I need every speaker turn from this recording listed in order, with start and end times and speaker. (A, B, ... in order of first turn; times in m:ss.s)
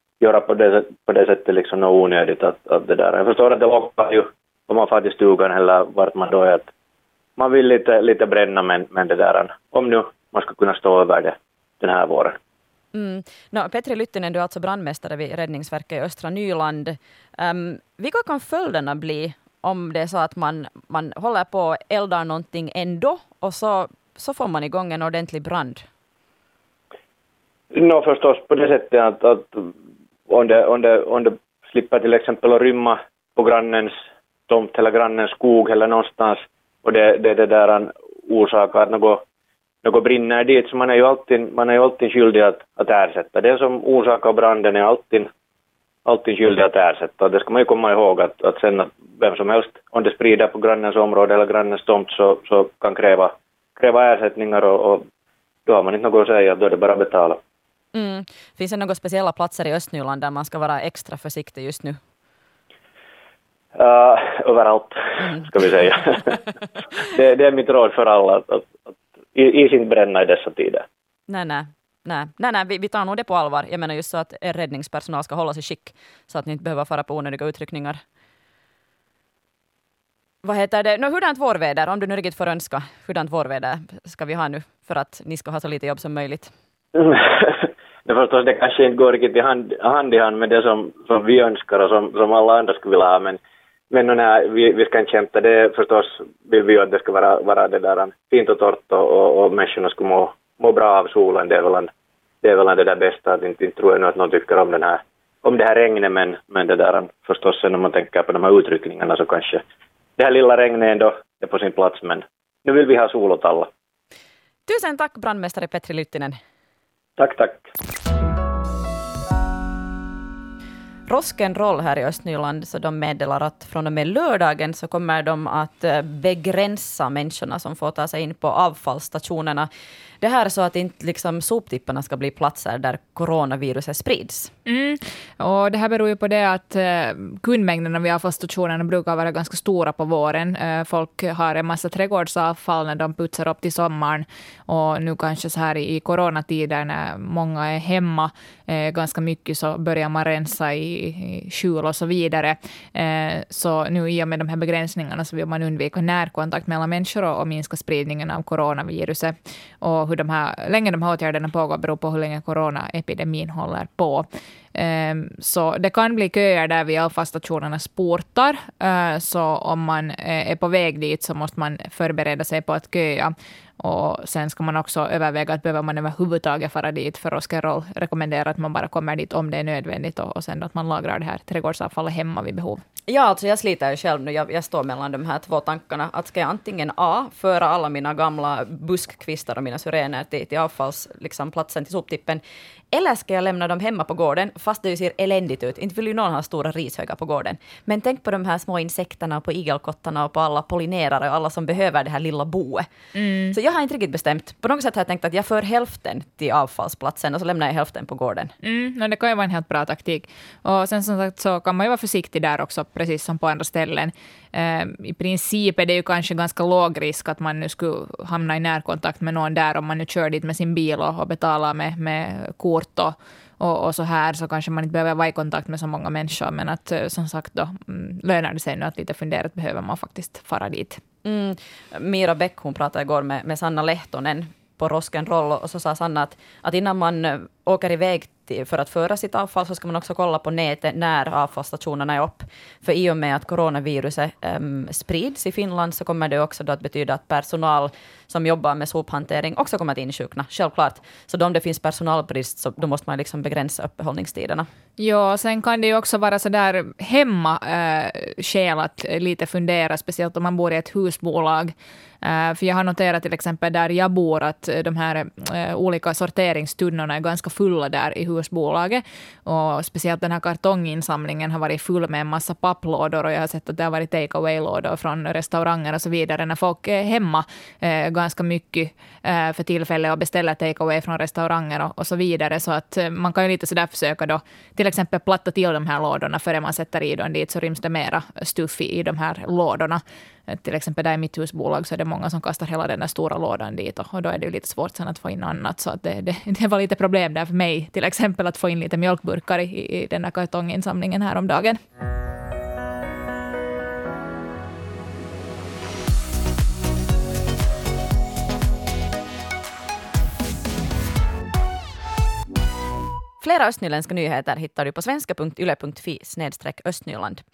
0:00.2-0:06.7 A
0:07.4-0:12.3 A
0:12.9-0:25.8 B
0:27.8-0:29.5 A
0:30.3-0:33.9 A
0:34.5-0:39.2 A
0:39.8-0:45.2 A
0:46.0-0:55.0 A
0:55.7-0:57.4 A
0:57.9-1:02.0 B
1:03.8-1:04.9 A
1:05.5-1:05.9 A
1:07.3-1:10.8 A
1:11.3-1:18.0 B
1:20.4-1:26.5 B
1:28.0-1:33.4 A
1:33.9-1:41.9 A
1:42.4-1:49.6 A
1:50.2-1:53.6 A
1:54.7-1:56.4 B
1:57.2-1:57.6 A
2:01.1-2:09.7 B
2:10.2-2:14.5 B
2:14.6-3:02.8 C
3:03.1-3:12.4 B
3:12.9-3:22.8 B
3:23.1-3:23.5 C
3:23.5-3:28.5 B
3:28.6-3:51.0 C
3:51.2-4:14.7 B
4:15.0-5:01.8 C
5:13.4-5:17.4 B